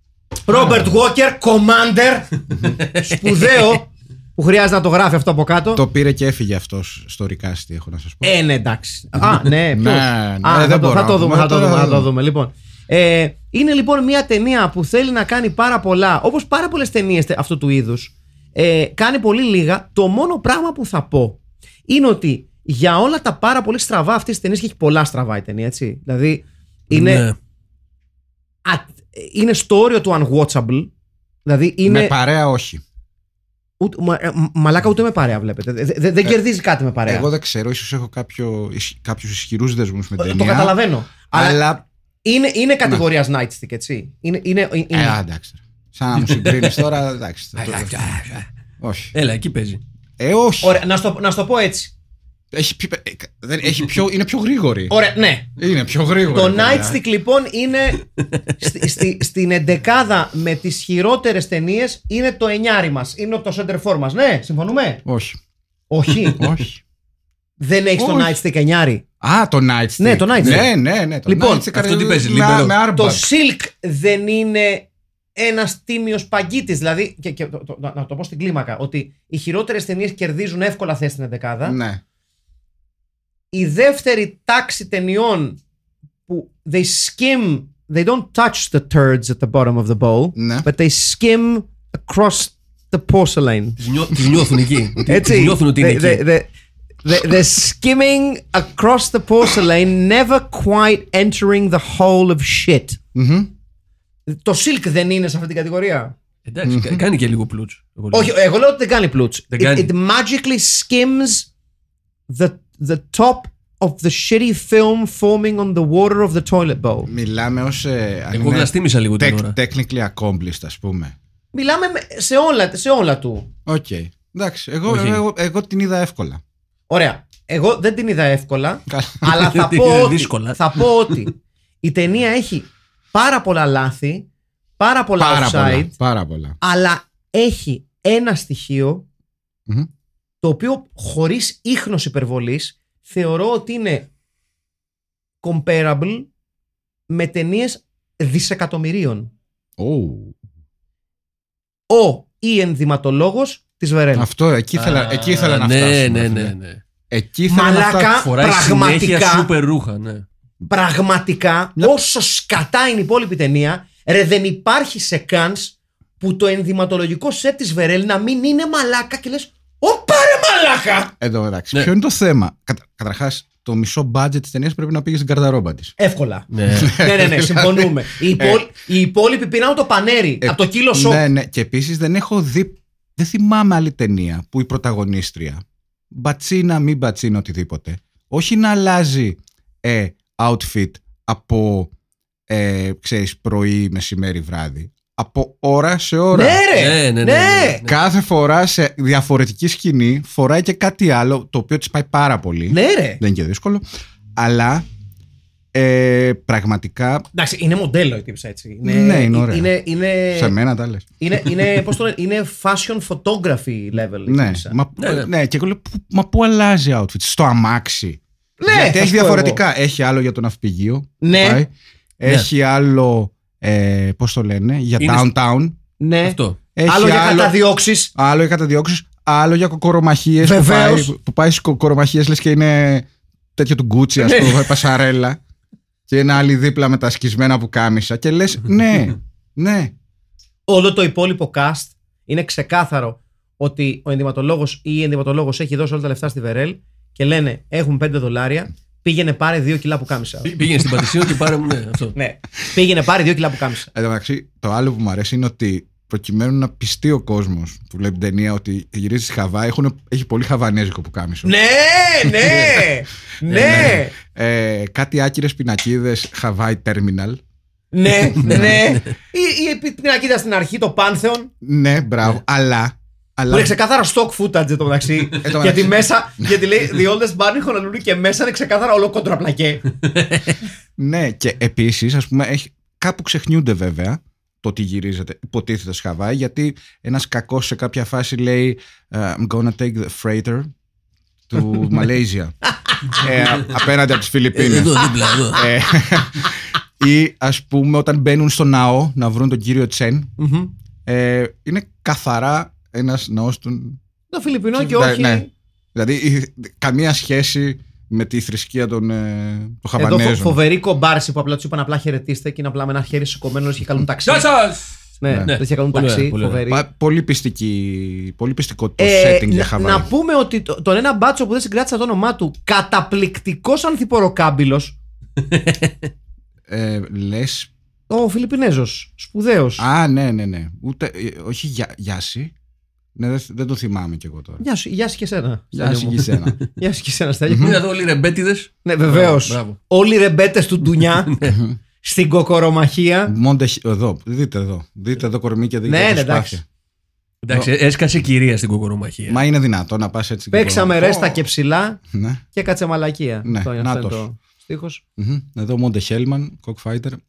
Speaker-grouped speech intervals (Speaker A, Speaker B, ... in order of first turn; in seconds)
Speaker A: 0.5-5.8, 8.2-27.3, 28.6-30.9, 31.4-32.1, 33.8-37.3, 40.2-41.7, 42.2-45.2, 50.6-51.9, 54.9-55.5, 56.3-58.0, 58.6-65.0, 65.9-66.5, 67.6-69.0, 70.0-70.7, 71.3-71.7, 72.9-81.8, 83.5-85.6, 86.3-93.8, 95.1-96.5, 97.0-103.0, 104.3-106.1, 108.1-111.5, 112.3-117.1, 121.5-123.5, 126.9-134.3, 134.8-135.9, 136.6-139.1, 140.4-144.1, 145.4-146.3, 147.1-149.3, 151.9-154.3, 157.5-159.5, 160.6-171.1, 176.0-181.2, 196.3-197.8, 202.7-203.2, 207.3-210.6, 211.2-214.8, 218.6-219.6, 221.2-221.6, 226.0-228.1, 230.4-231.1, 234.2-234.8, 240.7-250.5, 252.1-253.9, 261.4-264.1, 267.9-271.5, 273.5-279.9, 300.4-300.7, 304.3-305.5, 310.0-314.5, 315.2-316.8, 319.0-324.9, 328.1-329.9, 334.6-337.8, 338.9-343.3, 345.9-346.6, 350.5-352.0, 352.5-355.0
Speaker B: 0.6-0.8, 2.9-3.8, 26.9-27.4, 46.2-46.8, 47.6-48.4, 49.1-49.8, 70.4-70.7, 71.7-72.8, 93.8-96.2, 106.5-108.3, 109.5-109.9, 118.3-119.6, 124.9-125.2, 129.3-131.2, 154.8-156.8, 158.1-160.2, 176.5-176.9, 196.7-197.9, 215.0-215.3, 225.0-225.3, 226.2-226.6, 250.4-252.1, 263.5-263.9, 294.6-295.6, 314.2-314.9, 315.4-316.6, 325.5-325.9, 337.6-339.8, 347.4-349.4
Speaker C: 5.8-8.3, 9.2-12.1, 31.9-32.8, 37.1-40.8, 41.3-41.8, 44.9-48.0, 48.8-49.1, 50.2-50.8, 52.5-54.9, 55.5-57.0, 65.0-65.4, 66.4-66.8, 68.0-68.4, 69.2-73.3, 81.6-82.0, 90.4-90.7, 103.1-103.5, 106.6-107.1, 117.1-121.1, 123.7-126.4, 128.9-129.4, 135.2-136.6, 149.8-150.3, 154.1-156.5, 157.1-158.1, 171.2-175.9, 176.7-178.6, 180.4-191.9, 192.5-196.6, 197.8-203.8, 204.4-204.8, 205.7-207.3, 208.8-209.7, 210.3-211.1, 214.3-225.8, 226.8-227.6, 228.1-235.4, 236.1-239.9, 253.9-261.5, 262.4-262.7, 263.5-267.4, 268.4-268.8, 271.6-273.8, 275.4-276.6, 281.0-290.7, 291.5-292.6, 293.1-300.3, 301.1-304.0, 304.8-310.6, 316.7-320.1, 326.7-327.7, 329.8-332.5, 333.1-334.6, 335.7-336.6, 337.5-337.8, 341.4-341.8, 343.3-346.6, 349.3-351.4, 352.1-352.4, 353.4-354.2, 355.2-357.2